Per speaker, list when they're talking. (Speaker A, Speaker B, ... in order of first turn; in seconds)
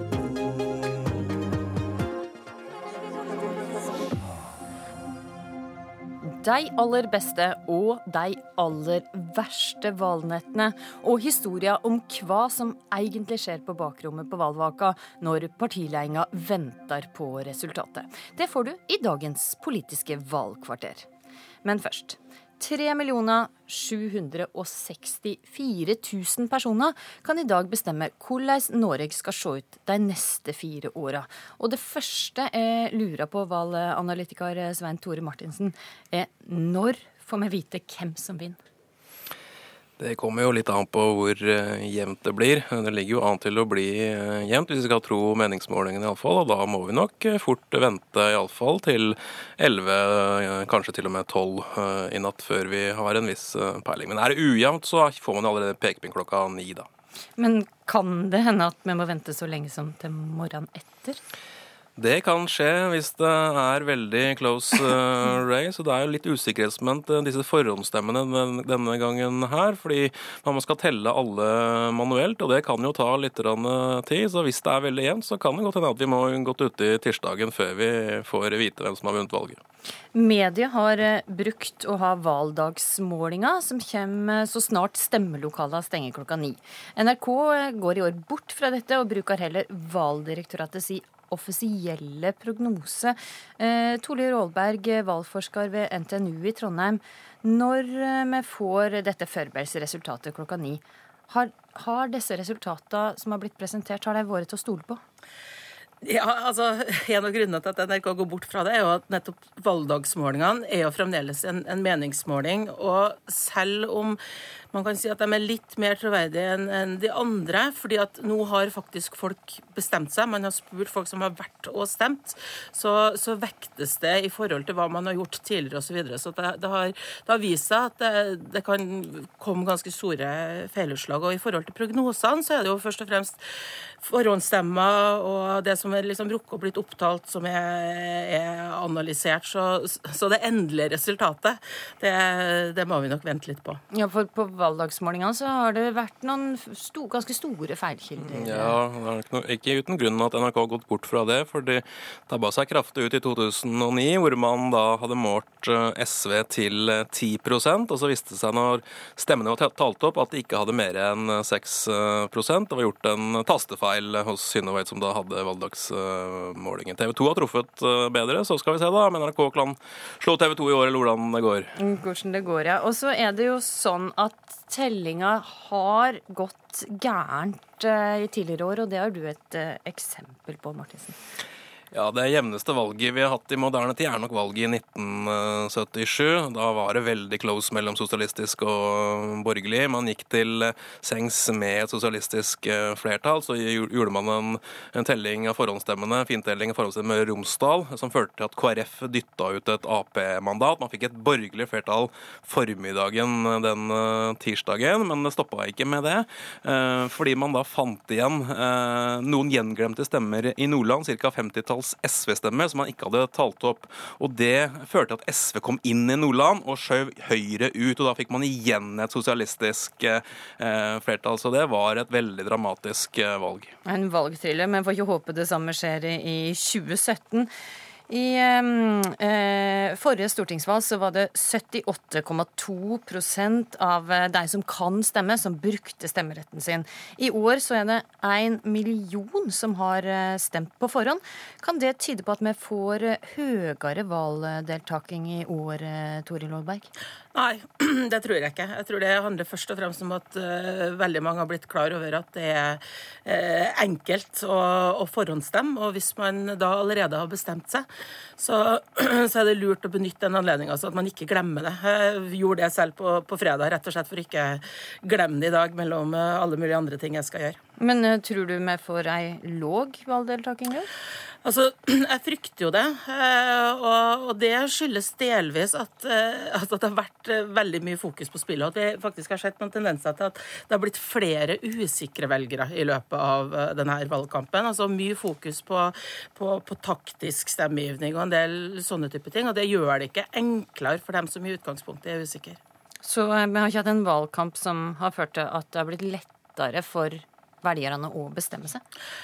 Speaker A: 6.2-21.1, 21.6-38.6, 57.4-61.2, 80.1-105.0, 143.9-148.8, 171.8-181.2, 223.8-227.5, 228.1-246.9, 267.8-270.9, 293.0-298.8
Speaker B: 40.0-56.9, 62.0-79.6, 148.2-171.7, 181.9-223.7
Speaker C: 106.0-114.2, 114.7-133.4, 134.0-143.8, 247.3-267.6, 271.4-292.6